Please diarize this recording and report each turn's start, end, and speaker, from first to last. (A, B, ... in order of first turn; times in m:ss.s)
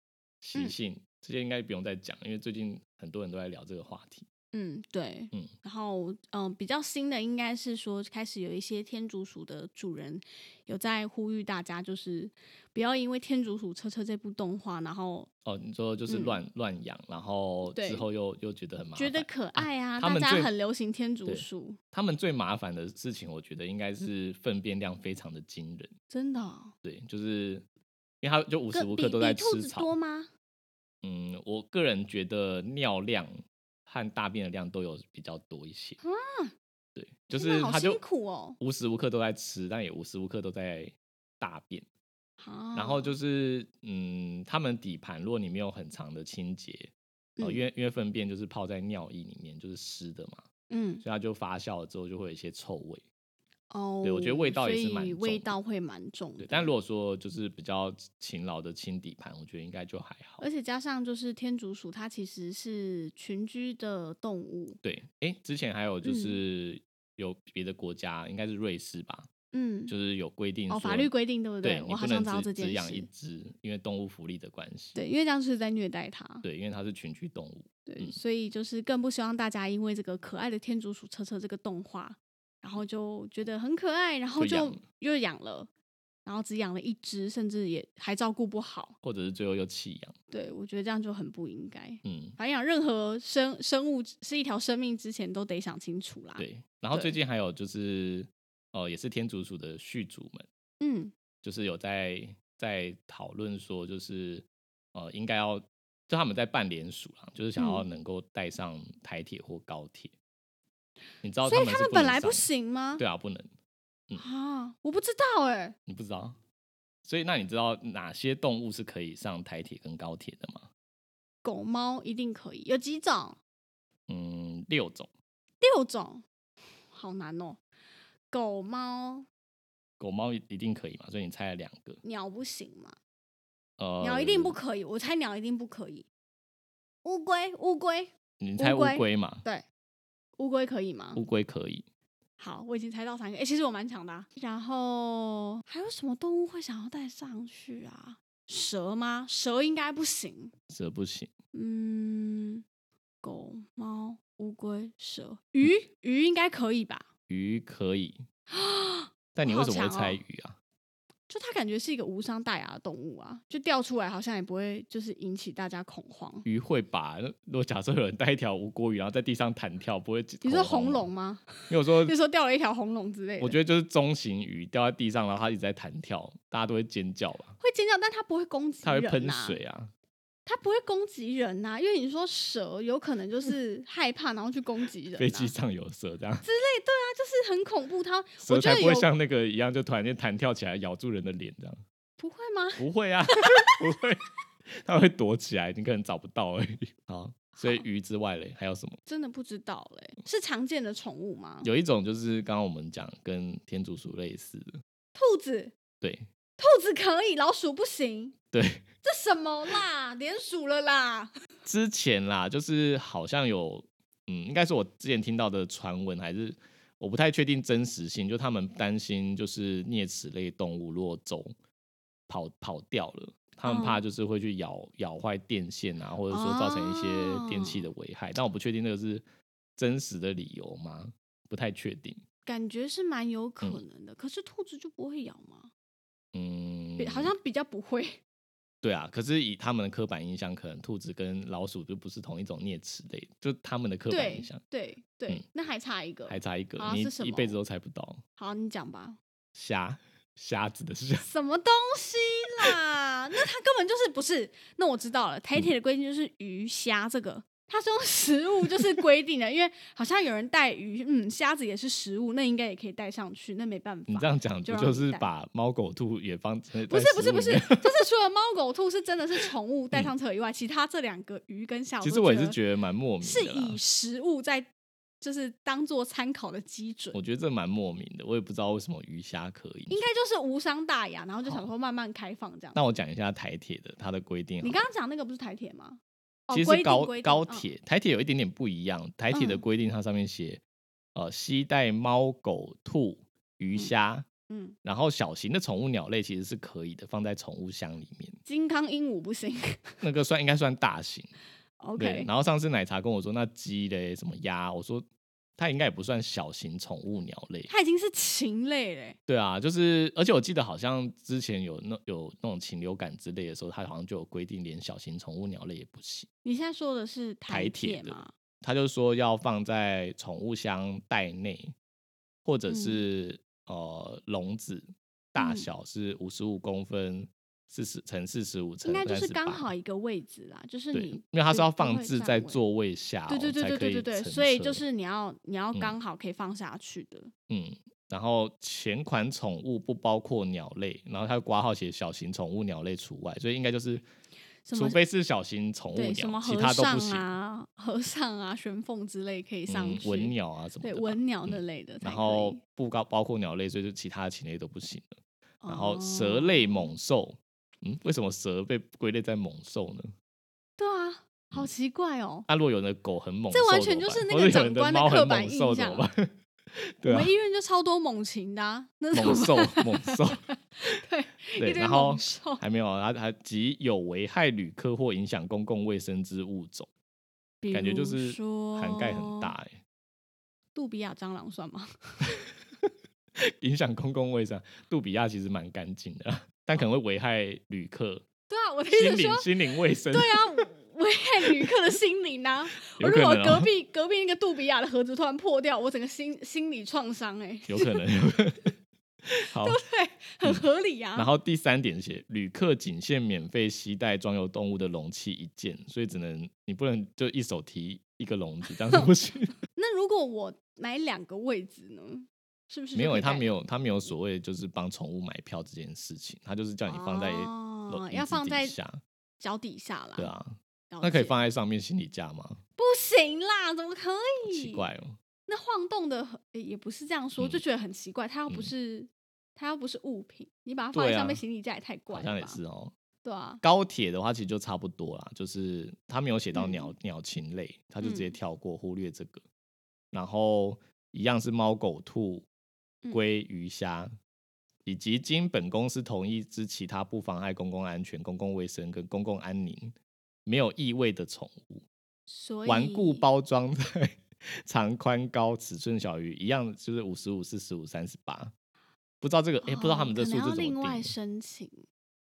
0:00.4-0:04.3 A
0:04.5-0:15.3 B
0:15.5-0:20.5 A
0:16.1-0:16.4 B
0:17.7-0:18.0 B
0:19.0-0:21.8 B
0:21.3-0:25.9 A
0:26.1-0:26.7 B
0:26.8-0:27.6 A
0:28.2-0:29.9 A
0:28.7-0:30.3 B
0:31.0-0:36.0 A
0:36.0-0:36.5 B
0:37.0-0:38.0 A
0:37.3-0:38.6 B
0:38.6-0:41.8 A
0:42.4-0:43.1 B
0:42.8-0:50.4 A
0:50.7-0:51.0 B
0:51.0-0:53.0 A
0:53.7-0:56.7 B
0:54.0-0:55.5 A
0:56.4-1:00.4 A
1:00.4-1:04.8 B
1:04.8-1:09.3 A
1:06.0-1:06.4 B
1:09.5-1:09.9 B
1:09.9-1:11.1 A
1:10.7-1:13.1 B
1:11.6-1:15.0 A
1:15.0-1:16.4 B
1:16.4-1:18.2 A
1:17.9-1:25.7 B
1:24.4-1:24.8 A
1:26.2-1:29.0 B
1:29.0-1:30.2 A
1:30.3-1:37.1 B
1:32.0-1:32.4 A
1:36.4-1:40.5 A
1:40.8-1:41.1 B
1:41.4-1:50.1 A
1:47.6-1:47.8 B
1:51.2-1:52.5 A
1:51.4-1:53.0 B
1:53.0-1:53.5 A
1:54.2-1:55.8 B
1:55.9-1:56.4 A
1:57.0-2:00.7 A
2:01.4-2:03.4 B
2:04.1-2:05.1 A
2:05.6-2:06.2 B
2:06.9-2:07.6 B
2:08.3-2:09.3 B
2:10.0-2:12.0 A
2:12.0-2:13.0 B
2:13.8-2:14.6 A
2:14.0-2:16.1 B
2:17.0-2:19.6 B
2:18.4-2:19.4 A
2:20.4-2:21.2 B
2:21.2-2:21.9 A
2:22.4-2:30.5 B
2:30.7-2:31.3 A
2:31.5-2:32.6 B
2:33.2-2:37.1 B
2:37.3-2:38.2 A
2:38.5-2:40.2 B
2:39.4-2:40.6 A
2:41.3-2:46.5 B
2:46.4-2:51.1 A
2:50.4-2:53.6 B
2:51.7-2:52.2 A
2:53.4-2:57.6 A
2:57.6-2:59.6 B
2:58.8-2:59.9 A
3:00.5-3:05.5 B
3:05.2-3:06.4 A
3:06.4-3:09.1 B
3:08.4-3:11.8 A
3:12.2-3:12.8 B
3:12.8-3:19.0 A
3:13.4-3:13.8 B
3:17.6-3:17.8 B
3:19.1-3:21.7 B
3:21.6-3:24.8 A
3:25.2-3:25.8 B
3:26.0-3:26.3 A
3:26.6-3:28.4 B
3:28.5-3:28.8 A
3:29.0-3:31.3 B
3:31.6-3:41.5 A
3:42.3-3:49.2 A
3:43.6-3:44.0 B
3:46.3-3:47.9 B
3:49.8-3:52.2 A
3:52.5-3:55.7 B
3:56.3-3:57.3 A
3:57.0-3:58.2 B
3:58.8-4:04.6 A
4:04.1-4:07.6 B
4:06.3-4:08.2 A
4:08.4-4:09.2 B
4:09.6-4:11.3 A
4:11.2-4:25.3 B
4:24.1-4:28.0 A
4:26.9-4:32.6 B
4:32.0-4:33.8 A
4:33.2-4:34.7 B
4:35.2-4:37.2 B
4:37.1-4:40.0 A
4:39.9-4:42.8 B
4:42.7-4:44.8 A
4:44.6-4:47.7 B
4:46.5-4:50.6 A
4:49.3-4:49.6 B
4:51.2-4:54.3 A
4:54.5-4:54.8 B
4:54.8-4:58.4 A
4:58.4-5:00.0 B
5:00.0-5:01.3 A
5:01.8-5:02.3 B
5:02.0-5:05.1 A
5:05.6-5:07.7 A
5:07.7-5:09.2 B
5:09.3-5:16.3 A
5:16.4-5:18.3 B
5:17.5-5:21.8 A
5:22.4-5:29.7 A
5:22.7-5:23.0 B
5:25.4-5:25.7 B
5:28.8-5:32.6 B
5:30.9-5:34.8 A
5:33.3-5:37.3 B
5:37.5-5:44.0 A
5:44.6-5:45.0 B
5:44.7-5:47.3 A
5:45.9-5:52.6 B
5:49.7-5:55.2 A
5:55.6-5:56.9 B
5:55.7-6:00.1 A
6:00.8-6:02.5 B
6:02.5-6:07.3 A
6:03.5-6:06.1 B
6:07.0-6:10.2 B
6:09.1-6:11.0 A
6:10.8-6:12.6 B
6:11.6-6:16.9 A
6:17.6-6:19.5 B
6:17.7-6:19.8 A
6:20.8-6:22.5 B
6:23.4-6:28.2 A
6:28.5-6:29.5 B
6:28.9-6:30.7 A
6:30.1-6:38.0 B
6:31.4-6:31.7 A
6:32.8-6:33.7 A
6:37.7-6:38.7 A
6:39.3-6:39.8 A
6:39.6-6:41.3 B
6:41.2-6:49.6 A
6:49.8-6:53.6 B
6:53.0-6:59.0 A
6:56.9-6:58.8 B
6:59.4-7:00.3 B
7:00.2-7:02.6 A
7:00.9-7:01.4 B
7:02.8-7:04.8 B
7:04.4-7:05.2 A
7:05.5-7:12.6 B
7:10.9-7:11.4 A
7:12.1-7:12.9 A
7:13.2-7:13.6 B
7:13.6-7:19.4 A
7:16.6-7:16.9 B
7:18.0-7:18.3 B
7:20.1-7:22.5 A
7:23.1-7:24.1 A
7:24.9-7:29.9 A
7:30.5-7:31.8 A
7:32.3-7:33.2 B
7:32.7-7:38.5 A
7:39.2-7:41.1 A
7:39.6-7:41.8 B